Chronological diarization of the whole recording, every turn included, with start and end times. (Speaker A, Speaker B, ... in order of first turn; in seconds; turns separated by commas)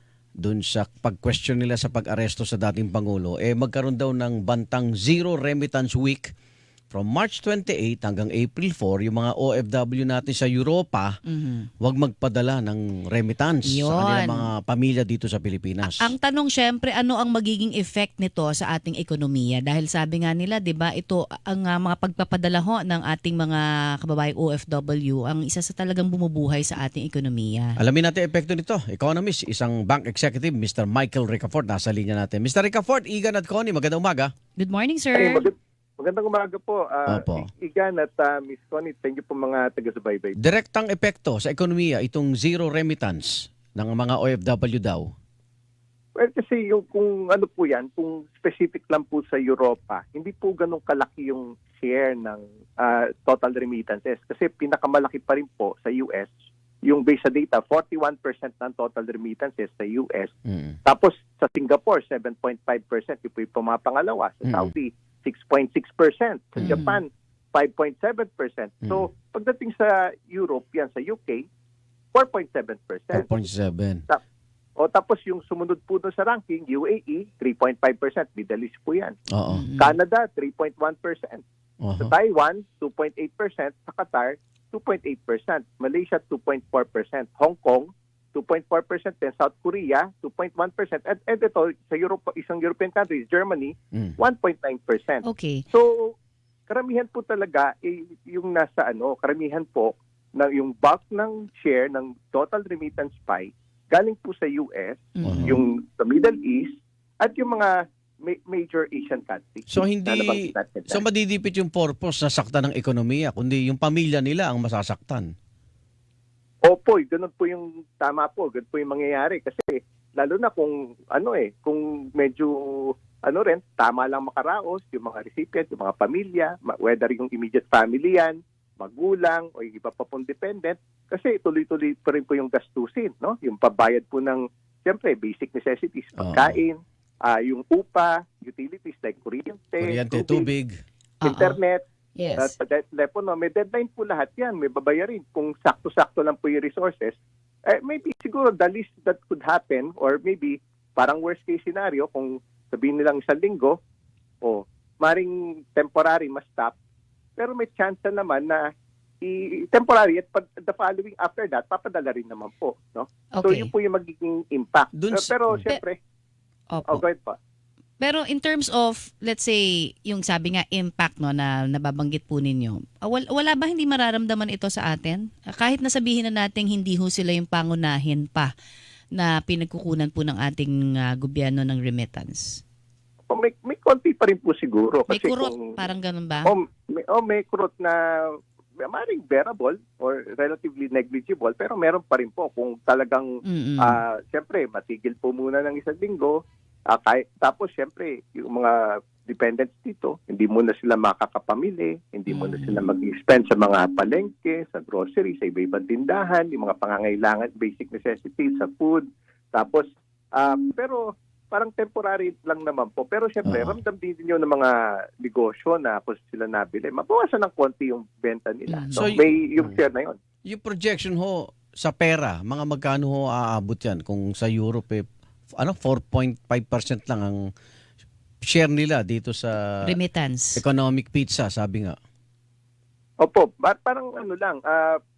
Speaker A: 0.4-6.3, Speaker A: 6.9-11.1, Speaker B: 11.2-11.7, Speaker A: 11.8-16.1, Speaker B: 13.7-14.5, Speaker B: 16.0-27.8, Speaker A: 27.8-34.3, Speaker B: 34.6-35.5, Speaker C: 35.1-40.4, Speaker A: 37.1-37.5, Speaker A: 40.4-45.1, Speaker C: 46.2-56.3, Speaker C: 56.9-60.3, Speaker A: 60.5-60.8, Speaker C: 60.9-71.5, Speaker A: 64.5-64.7, Speaker B: 66.6-67.0, Speaker C: 72.1-73.4, Speaker A: 73.1-74.0, Speaker C: 74.8-79.2, Speaker A: 79.3-79.6, Speaker B: 79.5-80.0, Speaker C: 79.8-81.4, Speaker A: 81.8-82.1, Speaker C: 82.0-96.1, Speaker B: 95.2-95.6, Speaker C: 96.7-106.7, Speaker B: 105.2-105.6, Speaker A: 105.2-105.6, Speaker C: 107.2-111.0, Speaker A: 109.7-115.3, Speaker C: 116.7-140.5, Speaker A: 136.2-136.6, Speaker A: 139.8-140.7, Speaker B: 141.2-141.6, Speaker C: 141.2-141.8, Speaker B: 142.2-142.5, Speaker C: 142.4-147.2, Speaker C: 147.7-153.8, Speaker C: 154.4-156.8, Speaker C: 157.4-158.6, Speaker C: 159.2-166.0, Speaker B: 163.3-163.7, Speaker A: 164.9-165.6, Speaker B: 166.7-167.0, Speaker C: 166.9-167.4, Speaker B: 168.0-178.5, Speaker B: 179.1-182.6, Speaker C: 183.3-185.8, Speaker B: 185.1-186.5, Speaker C: 186.5-188.3, Speaker C: 188.8-196.4, Speaker B: 193.4-194.0, Speaker C: 196.9-209.8, Speaker B: 202.3-202.8, Speaker C: 210.4-220.2, Speaker A: 213.4-213.8, Speaker B: 218.7-219.2, Speaker A: 218.9-219.8, Speaker A: 220.5-225.1, Speaker A: 225.6-227.4, Speaker A: 228.5-229.9, Speaker B: 229.8-230.6, Speaker A: 230.6-232.0, Speaker C: 233.2-235.0